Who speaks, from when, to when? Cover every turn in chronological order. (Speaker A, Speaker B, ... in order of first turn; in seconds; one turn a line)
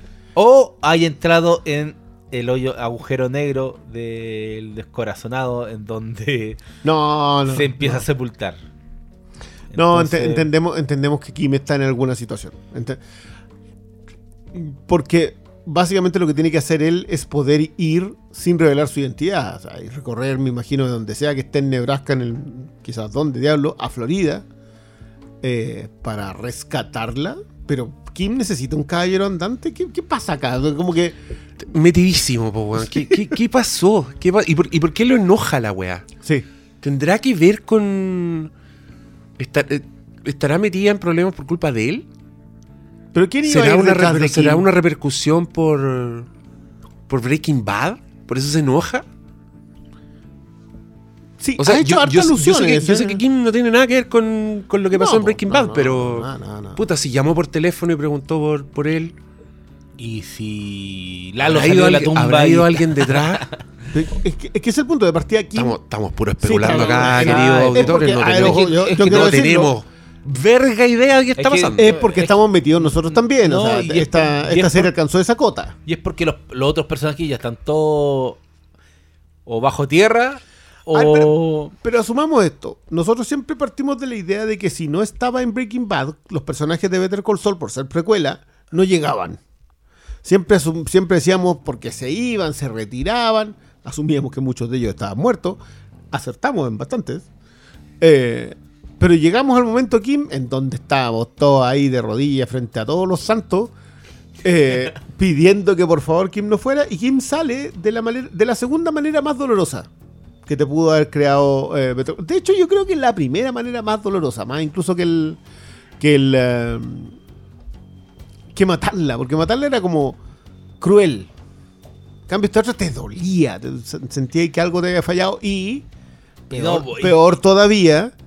Speaker A: 0.3-6.6
Speaker B: 6.8-8.0
Speaker A: 7.5-8.6
Speaker A: 9.7-10.5
Speaker B: 9.7-13.0
Speaker B: 14.5-24.4
Speaker B: 25.4-31.2
Speaker C: 31.6-36.1
Speaker C: 36.8-38.5
Speaker C: 39.4-42.0
Speaker B: 43.1-44.6
Speaker C: 43.4-46.3
Speaker C: 47.1-49.0
Speaker B: 51.4-53.2
Speaker C: 51.6-59.1
Speaker B: 54.9-56.8
Speaker A: 60.0-63.5
Speaker C: 61.4-63.5
Speaker B: 63.9-65.8
Speaker C: 65.5-72.0
Speaker B: 66.4-69.7
Speaker A: 66.5-69.4
Speaker A: 71.3-74.9
Speaker B: 71.8-75.7
Speaker A: 75.8-78.4
Speaker A: 79.5-81.7
Speaker B: 80.9-89.4
Speaker B: 90.2-95.6
Speaker B: 96.1-97.2
Speaker B: 98.0-103.7
Speaker B: 104.4-109.9
Speaker B: 110.5-115.4
Speaker B: 116.0-117.2
Speaker B: 118.5-120.2
Speaker B: 120.8-121.3
Speaker B: 122.3-125.8
Speaker B: 126.5-128.1
Speaker A: 126.5-127.2